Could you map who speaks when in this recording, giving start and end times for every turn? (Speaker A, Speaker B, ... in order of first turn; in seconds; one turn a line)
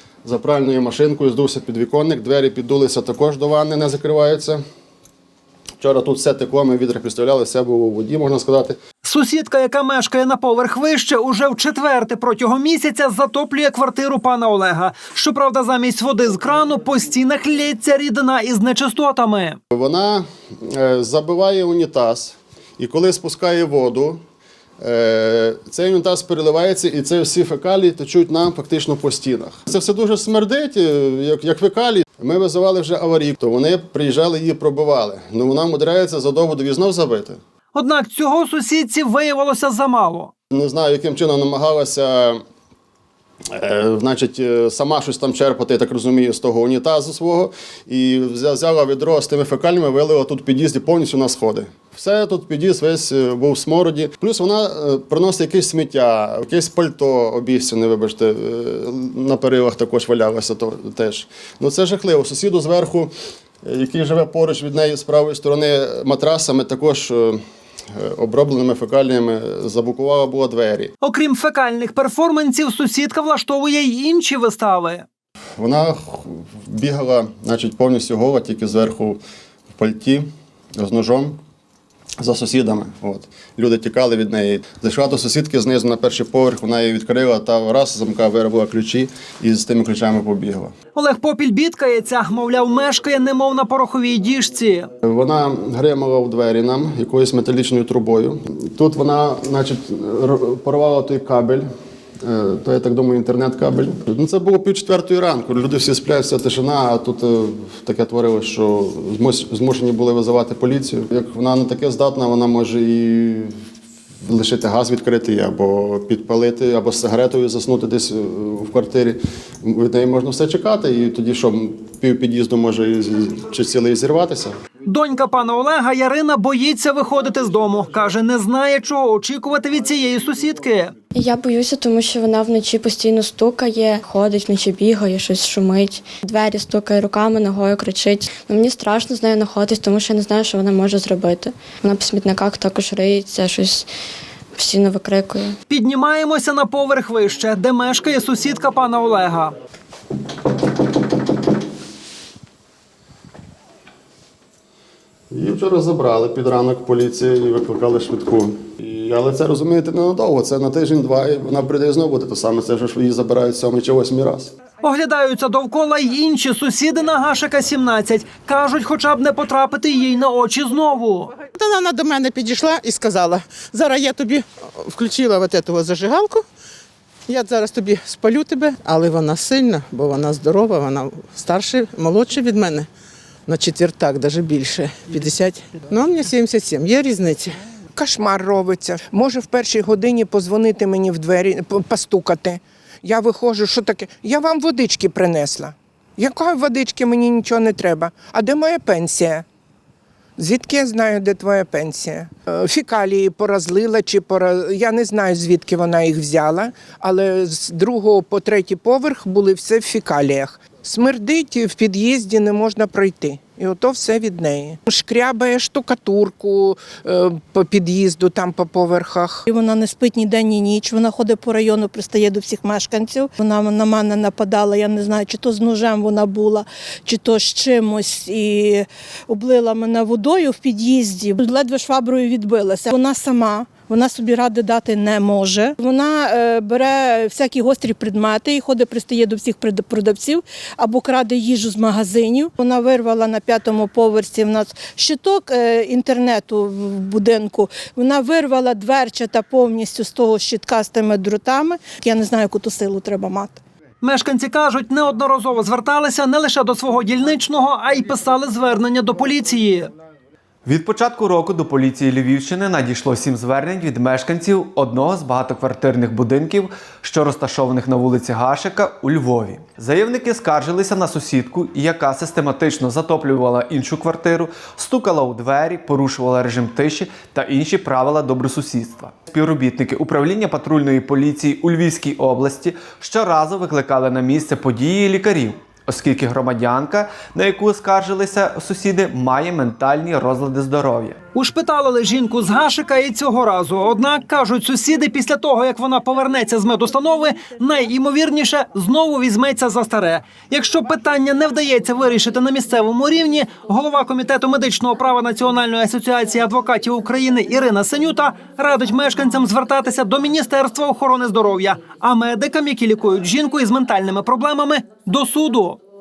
Speaker A: 0.2-4.6
Speaker A: 5.8-8.8
Speaker B: 9.0-19.6
Speaker A: 19.7-24.2
Speaker A: 24.8-37.4
Speaker B: 37.7-40.3
Speaker A: 40.5-42.4
Speaker A: 43.5-63.1
Speaker A: 63.6-67.4
Speaker A: 67.9-70.9
Speaker B: 71.0-75.0
Speaker A: 75.6-79.2
Speaker A: 79.8-81.4
Speaker A: 82.2-90.7
Speaker B: 90.9-94.9
Speaker A: 95.0-101.7
Speaker A: 102.2-113.5
Speaker A: 114.2-124.5
Speaker B: 124.9-130.9
Speaker C: 131.2-143.9
Speaker C: 144.6-145.6
Speaker B: 145.7-149.6
Speaker A: 155.3-164.5
Speaker B: 164.8-171.3
Speaker D: 171.5-176.4
Speaker D: 177.3-182.9
Speaker D: 183.5-187.6
Speaker E: 188.0-199.4
Speaker E: 200.4-219.4
Speaker F: 219.5-253.6
Speaker B: 254.0-259.9
Speaker G: 260.6-291.2
Speaker B: 291.3-315.8